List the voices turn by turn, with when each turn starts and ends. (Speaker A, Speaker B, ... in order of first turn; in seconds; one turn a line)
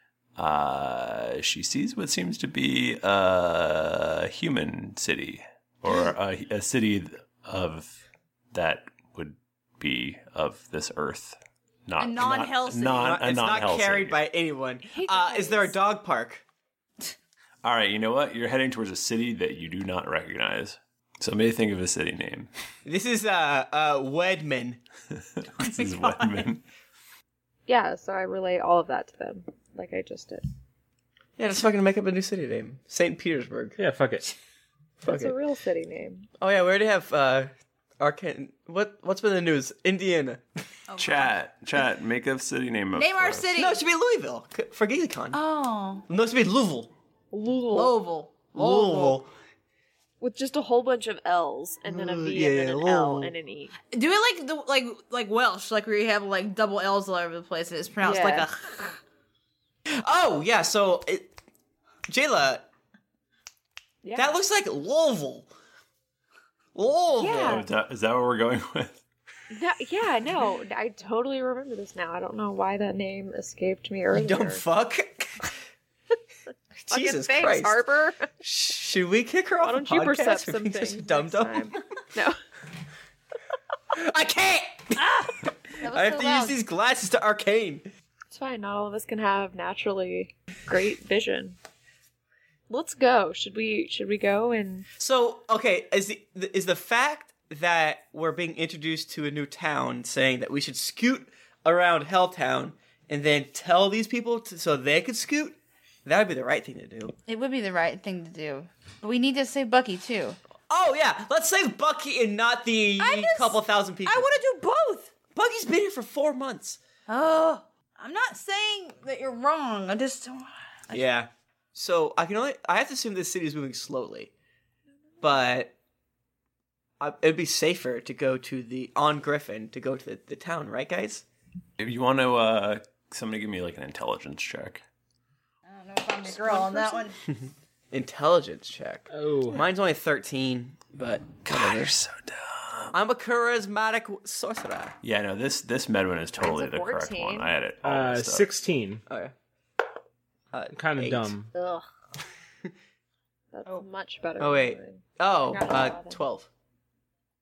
Speaker A: 0.4-8.0
Speaker A: 8.5-14.2
Speaker B: 12.0-13.1
Speaker C: 12.9-16.4
Speaker D: 14.9-15.8
Speaker A: 17.6-22.5
Speaker C: 22.9-24.8
Speaker A: 25.6-26.6
Speaker B: 25.6-26.5
Speaker D: 27.7-30.5
Speaker C: 31.4-33.8
Speaker E: 33.8-34.3
Speaker C: 35.0-35.3
Speaker D: 35.0-36.3
Speaker C: 36.4-40.4
Speaker B: 40.9-41.4
Speaker A: 41.0-43.5
Speaker B: 42.9-43.8
Speaker C: 43.5-45.4
Speaker B: 45.3-46.0
Speaker C: 46.1-46.9
Speaker D: 47.3-48.0
Speaker B: 47.7-49.2
Speaker C: 48.5-49.3
Speaker D: 50.2-53.7
Speaker C: 51.9-53.3
Speaker B: 53.9-59.0
Speaker D: 58.0-58.5
Speaker C: 59.9-61.3
Speaker C: 62.1-62.7
Speaker D: 64.0-64.4
Speaker C: 64.2-65.5
Speaker C: 66.8-67.7
Speaker D: 67.2-67.7
Speaker A: 67.4-69.0
Speaker D: 69.5-74.6
Speaker C: 74.1-75.5
Speaker C: 76.9-77.8
Speaker D: 76.9-78.3
Speaker C: 78.4-81.7
Speaker D: 79.6-82.4
Speaker C: 83.9-85.0
Speaker B: 85.0-86.6
Speaker C: 85.8-87.8
Speaker D: 88.3-91.6
Speaker D: 92.7-94.9
Speaker C: 95.0-107.2
Speaker B: 107.3-110.4
Speaker C: 110.7-114.3
Speaker B: 113.0-115.2
Speaker C: 115.3-116.8
Speaker B: 117.1-121.0
Speaker C: 120.9-124.3
Speaker C: 125.2-125.7
Speaker C: 127.0-131.2
Speaker A: 131.8-134.8
Speaker B: 135.7-137.1
Speaker C: 137.9-141.9
Speaker E: 139.1-139.6
Speaker A: 141.5-142.9
Speaker C: 142.9-145.0
Speaker A: 145.0-148.5
Speaker D: 146.4-147.5
Speaker E: 147.8-149.0
Speaker C: 149.1-149.3
Speaker C: 150.5-151.3
Speaker E: 150.7-151.5
Speaker D: 151.5-151.8
Speaker D: 153.5-156.2
Speaker C: 154.4-156.5